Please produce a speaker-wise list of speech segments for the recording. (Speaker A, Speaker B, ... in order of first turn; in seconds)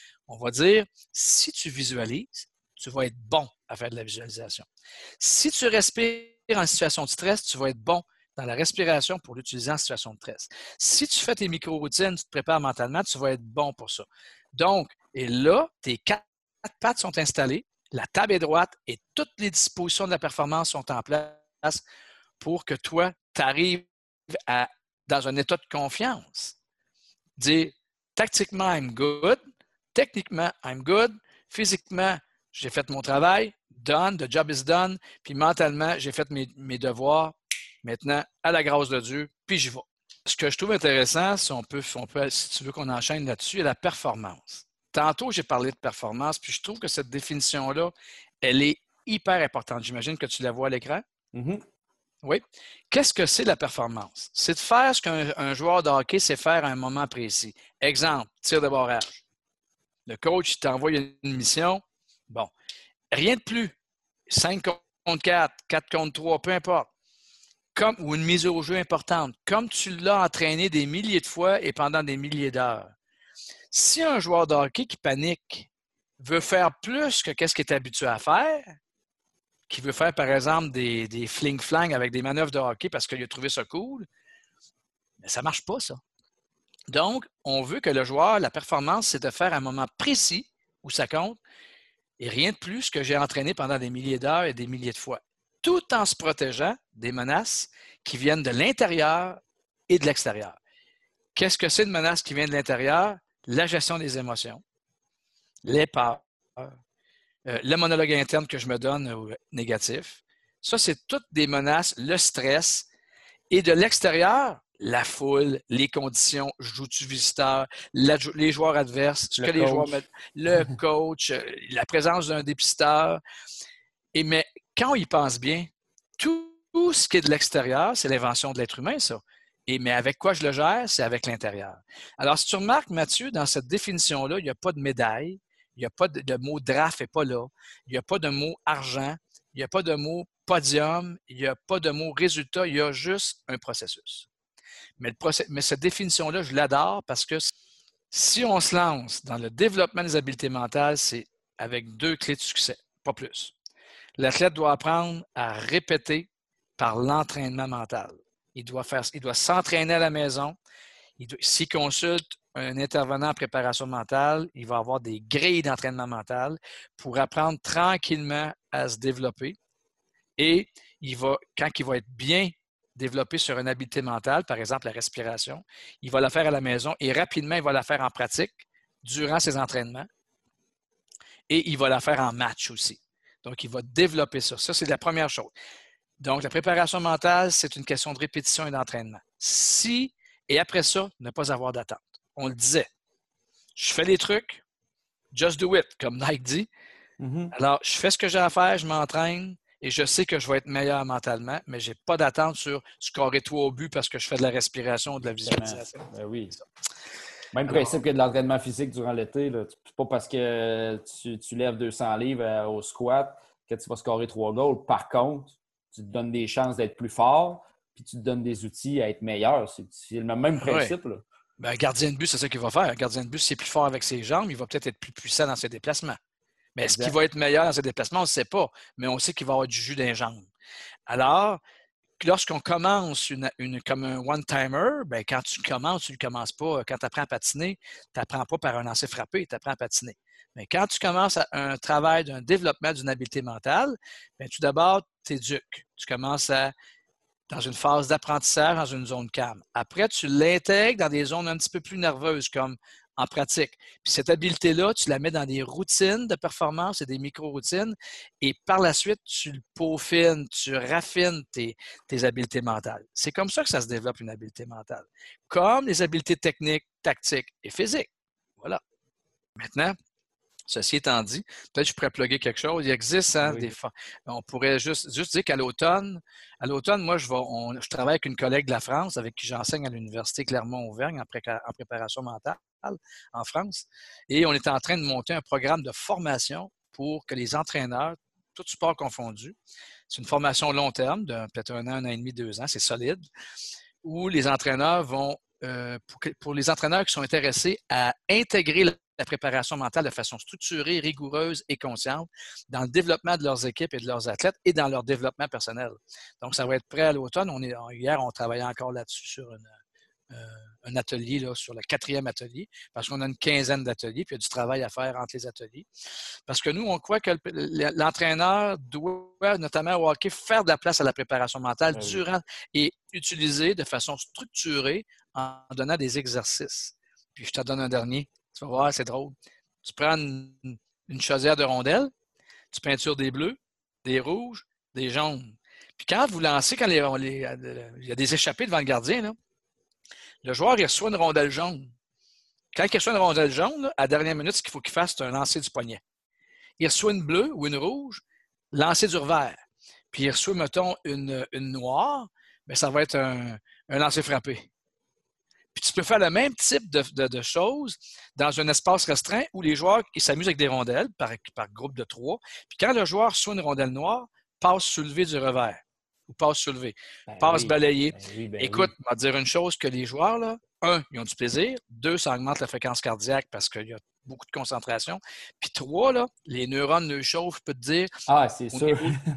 Speaker A: 0.3-4.7, 5.2-21.8, 22.4-26.6, 27.4-29.4, 29.9-51.0, 52.2-59.2, 60.1-62.5, 63.1-63.8, 64.3-66.9, 67.7-72.9, 73.7-78.8, 79.7-84.1, 85.2-86.0, 86.9-91.4, 92.2-100.6, 101.3-104.6, 105.6-106.7, 107.4-112.9, 113.5-123.2, 124.1-144.3, 145.0-147.5, 148.1-153.5, 154.2-160.6, 161.2-169.6, 170.4-180.1, 181.5-185.5, 186.2-192.9, 193.8-194.6, 195.3-196.7, 197.5-206.6, 207.7-208.0, 220.6-220.9, 221.6-226.2, 226.8-230.5, 231.1-231.6, 232.2-246.7, 247.5-268.8, 269.6-269.9, 270.7-289.6, 290.1-293.2, 294.0-309.7, 310.3-315.9, 316.5-332.1, 332.7-339.4, 340.4-341.9, 342.7-346.0, 346.8-349.6, 350.1-354.7, 355.7-378.1, 378.7-379.1
Speaker B: 51.3-51.6, 119.4-120.0, 197.2-197.5, 205.4-206.6, 207.5-221.2, 226.9-227.2, 273.4-273.7, 321.9-322.2, 367.3-368.9, 378.3-379.2